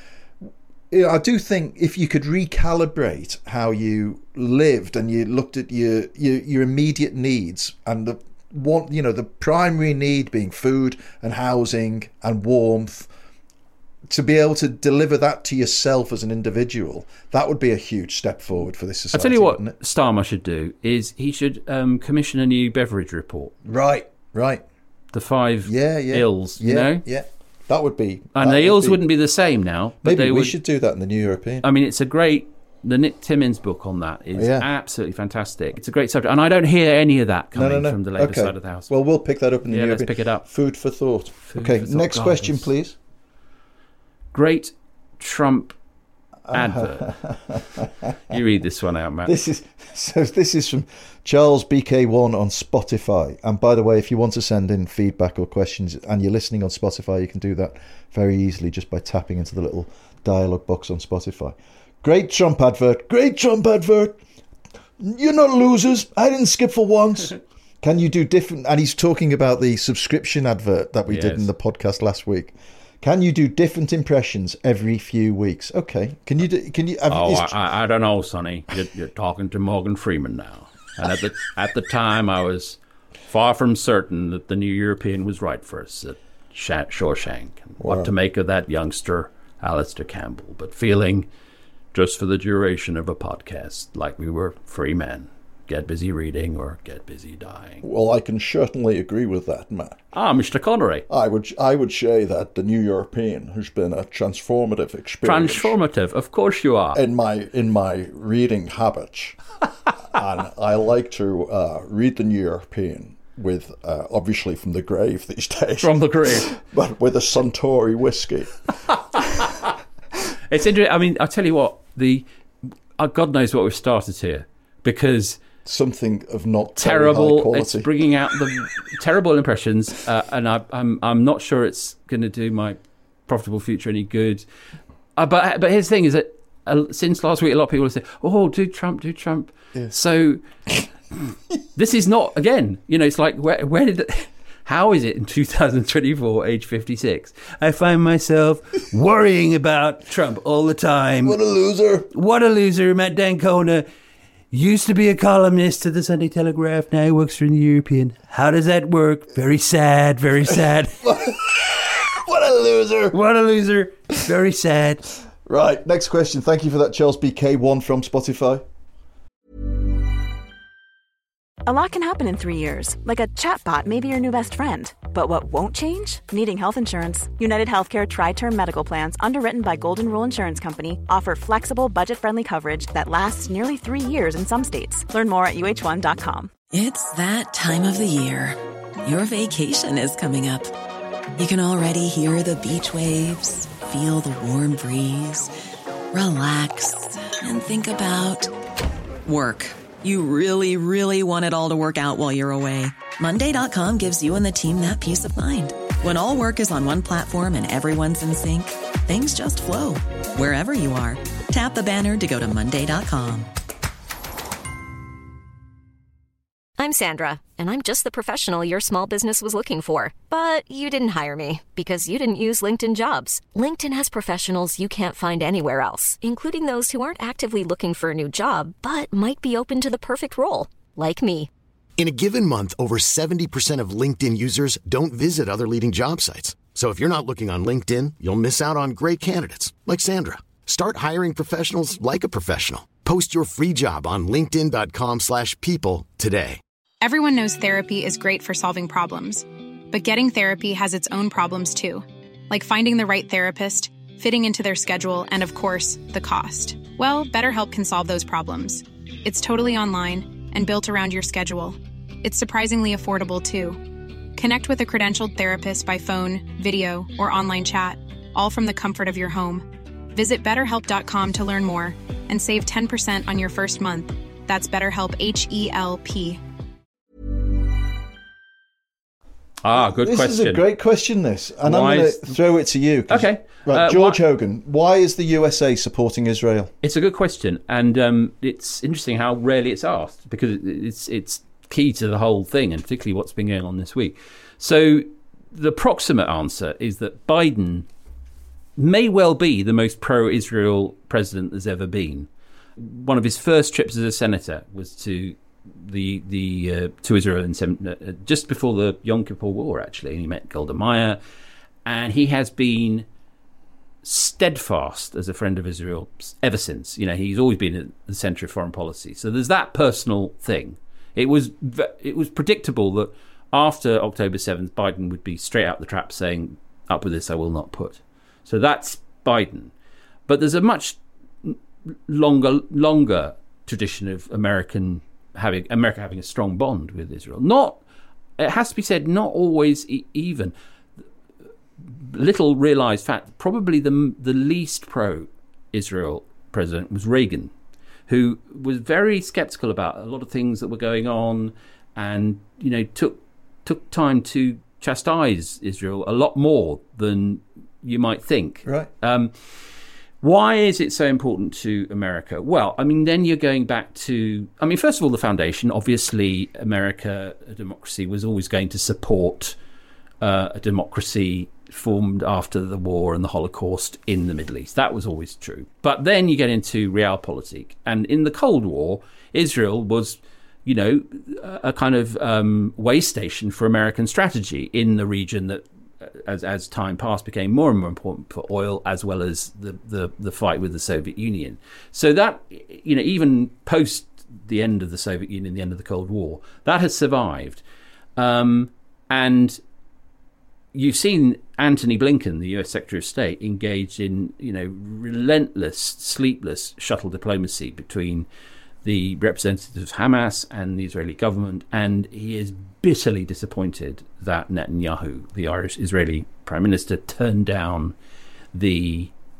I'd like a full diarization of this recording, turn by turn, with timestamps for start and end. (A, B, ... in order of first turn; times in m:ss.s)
0:00.4-0:13.1 A
0:14.1-0:19.8 A
0:19.1-0:23.6 B
0:23.7-0:24.6 A
0:25.1-0:27.0 B
0:25.6-0:29.0 A
0:28.4-0:30.6 B
0:30.0-0:31.6 A
0:31.6-0:38.9 B
0:34.4-0:34.7 A
0:37.5-0:43.0 A
0:39.7-0:40.5 B
0:41.4-0:42.7 B
0:44.3-0:45.8 B
0:46.5-0:48.4 A
0:46.5-0:47.2 B
0:48.3-0:49.4 B
0:49.2-1:04.2 A
1:05.0-1:17.6 A
1:11.1-1:11.5 B
1:17.1-1:31.3 B
1:27.8-1:28.1 A
1:31.9-1:37.8 B
1:37.8-1:40.0 A
1:40.1-1:41.1 B
1:41.1-1:45.8 A
1:45.2-1:47.0 B
1:47.0-1:49.4 A
1:50.0-1:58.6 A
1:55.8-1:56.5 B
1:59.2-1:59.7 B
2:00.5-2:02.2 B
2:03.0-2:05.4 B
2:05.6-2:07.9 A
2:06.8-2:14.4 B
2:15.2-2:20.4 B
2:21.8-2:31.4 B
2:31.2-2:32.1 A
2:32.1-2:33.9 B
2:34.5-2:41.2 B
2:40.5-2:43.2 A
2:43.1-2:45.1 B
2:45.5-2:48.6 A
2:51.7-3:06.5 C
3:06.7-3:10.7 D
3:11.4-3:15.5 D
3:16.1-3:18.5 D
3:19.2-3:33.5 D
3:36.8-3:51.5 E
3:52.0-4:06.6 F
4:07.0-4:23.8 G
4:24.4-4:36.4 G
4:39.6-4:40.6 B
4:39.7-4:46.7 A
4:41.6-4:42.4 B
4:43.1-4:44.2 B
4:46.8-4:57.9 B
4:58.8-5:11.2 B
5:11.8-5:13.1 B
5:14.0-5:29.7 B
5:30.3-5:37.8 B
5:38.4-5:40.5 B
5:41.8-5:47.5 B
5:48.1-5:59.3 B
5:58.6-5:58.9 A
6:00.2-6:09.6 B
6:10.2-6:37.6 B
6:38.2-6:39.6 B
6:40.7-6:48.3 B
6:48.8-6:58.0 B
6:58.5-6:59.1 B